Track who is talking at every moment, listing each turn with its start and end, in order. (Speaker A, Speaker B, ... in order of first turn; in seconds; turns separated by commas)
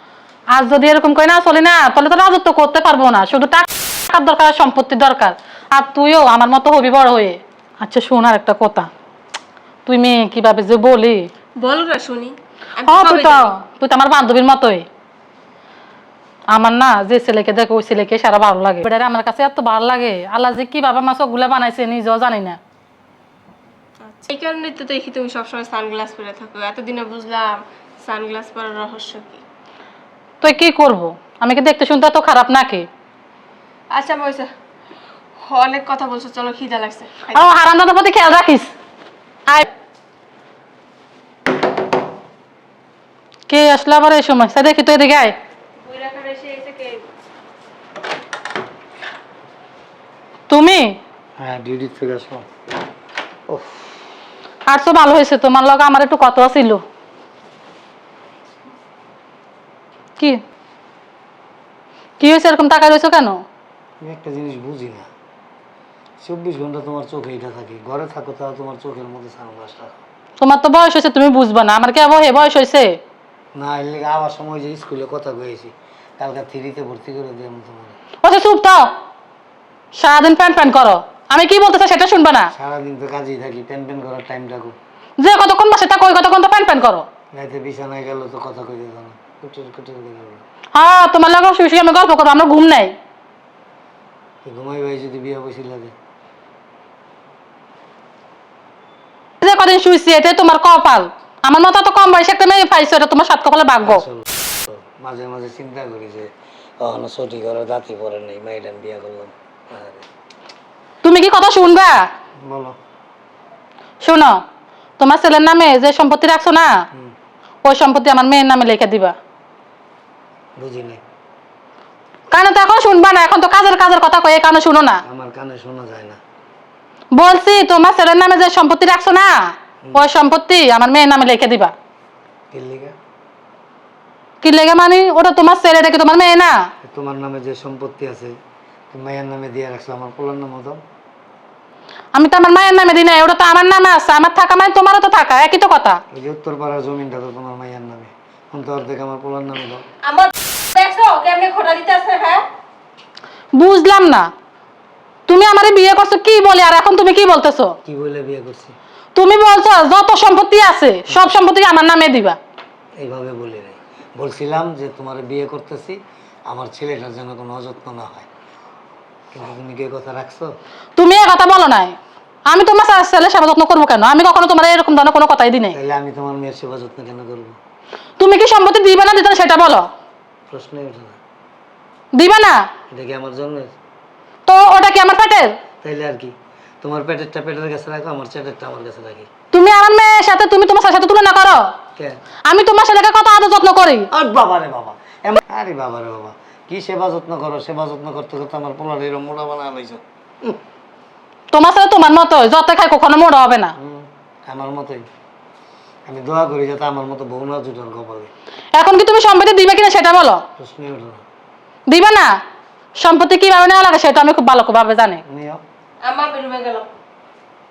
Speaker A: 0.5-8.9, Speaker A: 9.8-11.3, Speaker B: 11.6-13.5, Speaker A: 12.8-14.8, Speaker A: 16.5-22.6, Speaker B: 24.0-29.4, Speaker A: 30.4-32.9, Speaker B: 33.9-34.5, Speaker B: 35.4-37.4, Speaker A: 37.3-38.7, Speaker A: 43.5-45.3, Speaker B: 45.8-47.0, Speaker A: 50.5-51.0, Speaker C: 51.4-52.4, Speaker C: 53.5-53.8, Speaker A: 54.7-56.8, Speaker A: 62.2-63.4, Speaker C: 64.0-65.1, Speaker C: 66.2-69.9, Speaker A: 70.4-72.9, Speaker C: 73.5-78.0, Speaker A: 78.2-78.9, Speaker A: 79.9-82.5, Speaker C: 82.5-84.8, Speaker A: 85.2-87.0, Speaker C: 87.3-90.4, Speaker A: 90.7-92.9, Speaker C: 94.4-95.9, Speaker A: 99.4-104.0, Speaker C: 103.8-106.3, Speaker C: 106.8-110.0, Speaker A: 111.0-112.0, Speaker C: 112.4-112.8, Speaker A: 114.0-114.4, Speaker A: 115.0-116.7, Speaker A: 117.6-119.1, Speaker C: 120.6-121.0, Speaker A: 122.3-125.0, Speaker C: 125.0-126.2, Speaker A: 127.1-131.7, Speaker C: 132.5-132.9, Speaker A: 134.4-136.6, Speaker C: 136.8-138.3, Speaker C: 138.9-140.8, Speaker A: 142.1-146.0, Speaker C: 146.1-149.8, Speaker B: 150.0-152.4, Speaker A: 153.6-154.3, Speaker A: 155.3-157.8, Speaker C: 157.8-158.8, Speaker A: 159.1-162.4, Speaker C: 163.0-168.3, Speaker C: 169.3-170.5, Speaker A: 171.0-171.9, Speaker A: 172.5-175.8, Speaker C: 175.7-177.6, Speaker A: 178.2-179.9, Speaker C: 180.5-181.2, Speaker A: 182.1-182.6, Speaker C: 182.9-183.7, Speaker A: 184.4-185.6, Speaker C: 185.8-189.3, Speaker A: 189.5-191.7, Speaker A: 192.4-194.1, Speaker C: 194.1-200.6, Speaker A: 201.5-203.7, Speaker C: 203.8-205.1, Speaker C: 206.1-208.3, Speaker A: 208.7-210.4, Speaker C: 210.6-211.2, Speaker A: 211.9-212.3, Speaker A: 213.0-215.2, Speaker C: 215.2-215.6, Speaker B: 216.0-216.9